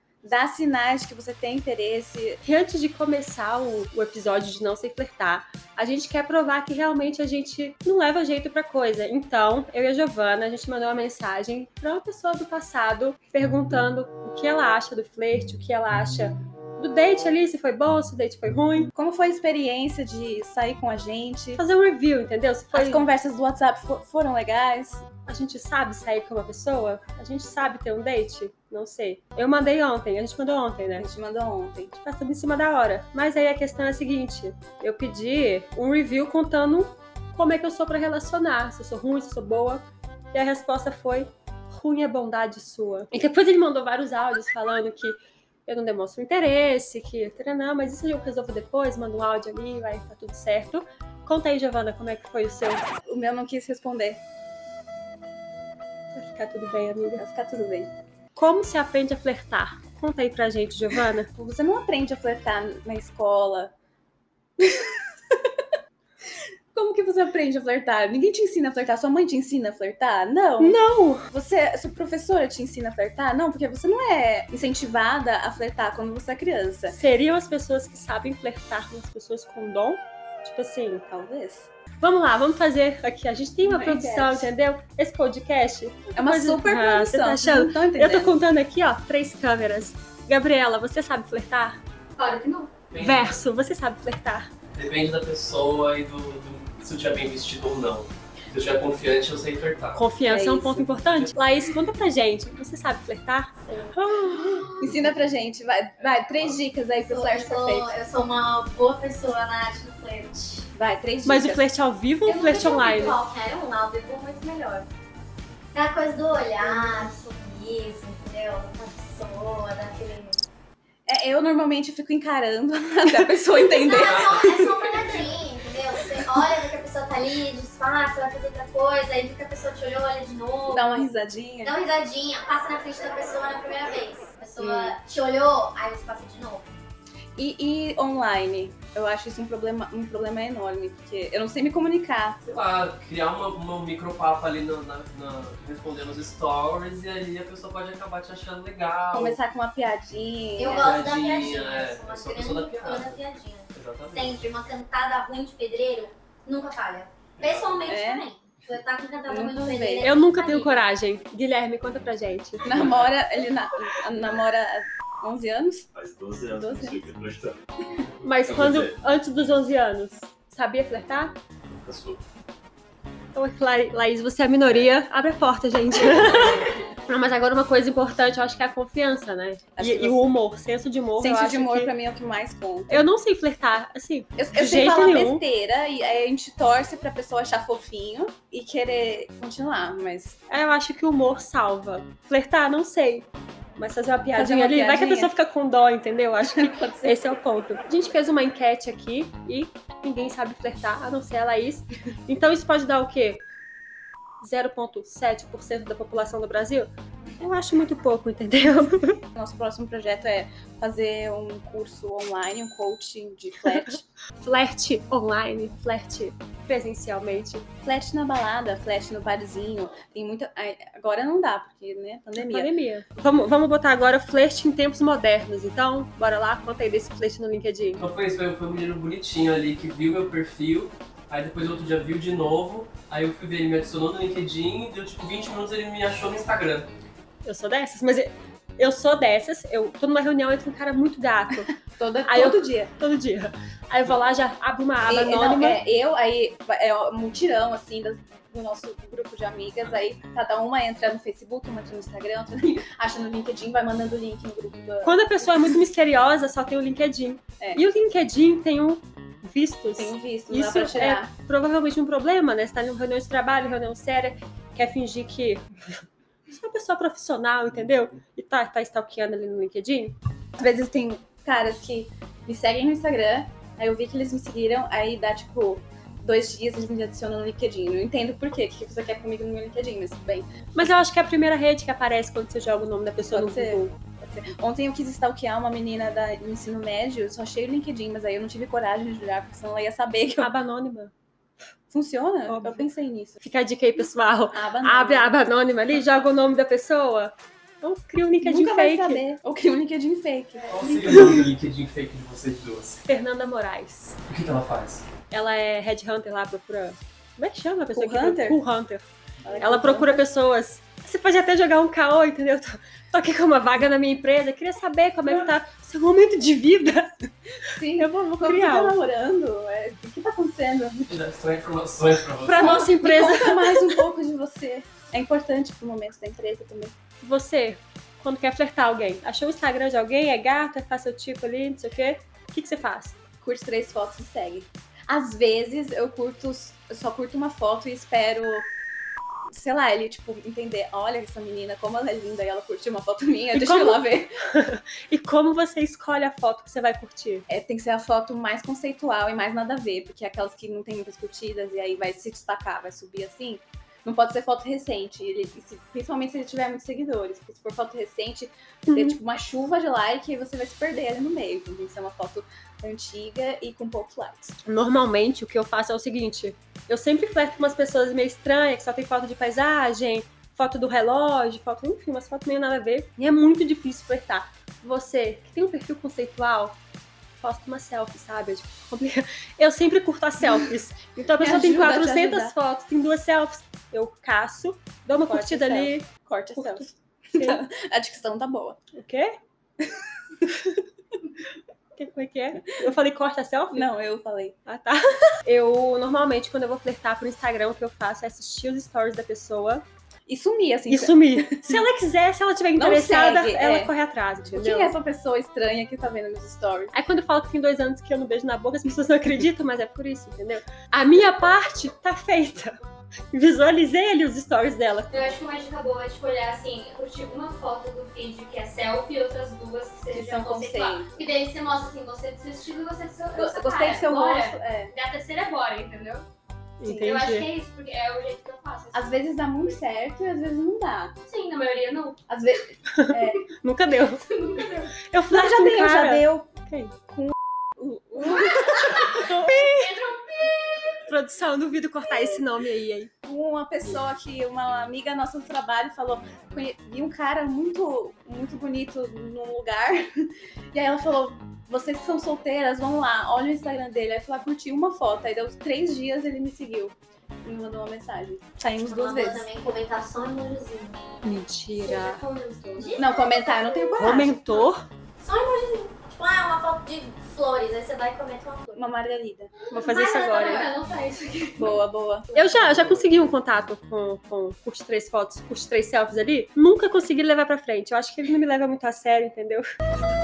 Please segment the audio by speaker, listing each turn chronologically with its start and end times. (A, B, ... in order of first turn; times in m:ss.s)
0:00.2-0:02.4 A
0:02.4-0:18.9 B
0:18.9-0:21.6 A
0:21.6-0:23.0 B
0:22.7-0:25.0 A
0:25.3-0:31.1 B
0:31.0-0:32.0 A
0:32.0-0:52.9 B
0:53.0-0:54.2 A
0:56.1-0:57.2 B
0:57.2-0:57.9 A
0:58.4-1:01.3 B
1:01.3-1:03.7 A
1:04.6-1:05.6 A
1:06.7-1:17.0 A
1:10.6-1:11.3 B
1:16.9-1:21.1 B
1:21.1-1:21.7 A
1:22.0-1:31.8 B
1:23.6-1:24.5 A
1:26.1-1:28.3 A
1:32.2-1:32.7 C
1:32.9-1:33.4 D
1:33.0-1:34.5 B
1:34.7-1:40.0 D
1:39.9-1:44.7 B
1:40.3-1:40.9 A
1:40.9-1:41.3 D
1:43.7-1:44.8 C
1:44.7-1:47.9 A
1:47.1-1:50.7 C
1:50.7-1:51.6 A
1:51.2-1:53.2 B
1:52.2-1:54.9 C
1:55.7-2:00.4 C
1:56.6-1:57.1 A
2:01.0-2:04.6 A
2:03.7-2:11.1 C
2:04.1-2:04.8 D
2:10.7-2:11.7 A
2:11.6-2:16.7 C
2:14.6-2:15.0 A
2:17.4-2:22.6 A
2:22.5-2:29.4 D
2:29.1-2:31.0 A
2:30.6-2:40.8 C
2:30.7-2:33.2 D
2:33.7-2:34.3 D
2:37.4-2:37.8 D
2:37.8-2:38.2 A
2:39.3-2:40.1 A
2:40.0-2:42.8 B
2:42.6-2:45.9 A
2:45.9-2:47.6 E
2:46.5-2:47.0 A
2:48.2-2:51.3 B
2:48.4-2:49.0 E
2:51.8-2:52.2 E
2:53.3-3:01.9 B
2:59.8-3:00.3 A
3:01.2-3:03.1 A
3:02.9-3:05.4 B
3:04.4-3:10.4 A
3:10.5-3:23.4 B
3:14.3-3:15.3 A
3:16.4-3:17.2 A
3:24.4-3:29.2 B
3:29.3-3:34.0 A
3:33.7-3:37.7 B
3:37.8-3:42.7 A
3:42.4-3:48.0 B
3:48.0-3:56.9 D
3:57.4-4:05.8 B
4:01.8-4:02.9 A
4:05.0-4:15.7 A
4:15.0-4:30.2 B
4:20.0-4:21.3 A
4:30.6-4:40.5 A
4:40.7-4:43.9 B
4:43.3-4:50.5 A
4:50.4-4:51.1 B
4:51.9-4:53.4 A
4:52.5-4:52.9 B
4:53.4-4:59.2 B
4:54.5-4:55.3 A
4:58.4-5:01.4 A
5:00.7-5:03.0 D
5:03.0-5:04.2 B
5:04.3-5:05.0 D
5:05.3-5:09.0 B
5:07.9-5:08.6 A
5:09.4-5:10.2 A
5:09.6-5:17.3 B
5:17.7-5:21.1 A
5:18.0-5:19.0 B
5:21.1-5:22.8 D
5:22.4-5:23.9 B
5:22.5-5:26.9 A
5:27.2-5:33.2 B
5:33.4-5:38.7 A
5:39.5-5:44.4 A
5:43.5-5:47.4 B
5:47.5-6:04.6 A
5:58.9-5:59.2 B
6:04.6-6:16.8 B
6:17.4-6:27.6 B
6:21.4-6:22.5 A
6:25.2-6:28.8 A
6:28.9-6:29.4 B
6:29.8-6:30.5 A
6:32.0-6:33.9 B
6:33.7-6:34.6 A
6:34.6-6:39.8 B
6:40.3-6:41.8 A
6:40.9-6:44.9 B
6:42.8-6:43.9 A
6:44.4-6:46.9 A
6:46.9-6:52.8 B
6:53.3-6:55.3 B
6:55.1-7:06.2 C
7:00.1-7:01.2 A
7:03.3-7:04.9 A
7:06.8-7:07.5 B
7:06.9-7:09.2 C
7:08.9-7:11.1 A
7:11.2-7:12.2 C
7:12.3-7:13.4 A
7:12.9-7:14.2 B
7:14.5-7:14.8 C
7:15.0-7:16.9 B
7:15.3-7:16.4 A
7:17.1-7:19.6 A
7:18.2-7:20.8 C
7:19.0-7:19.9 B
7:21.0-7:23.1 B
7:23.2-7:39.5 A
7:38.8-7:41.2 C
7:41.2-7:42.2 B
7:41.7-7:44.6 C
7:43.0-7:44.4 A
7:44.0-7:44.8 B
7:45.2-7:48.8 C
7:48.8-7:49.5 A
7:49.6-7:51.8 C
7:49.7-7:50.7 B
7:51.6-7:52.7 A
7:52.3-7:59.7 B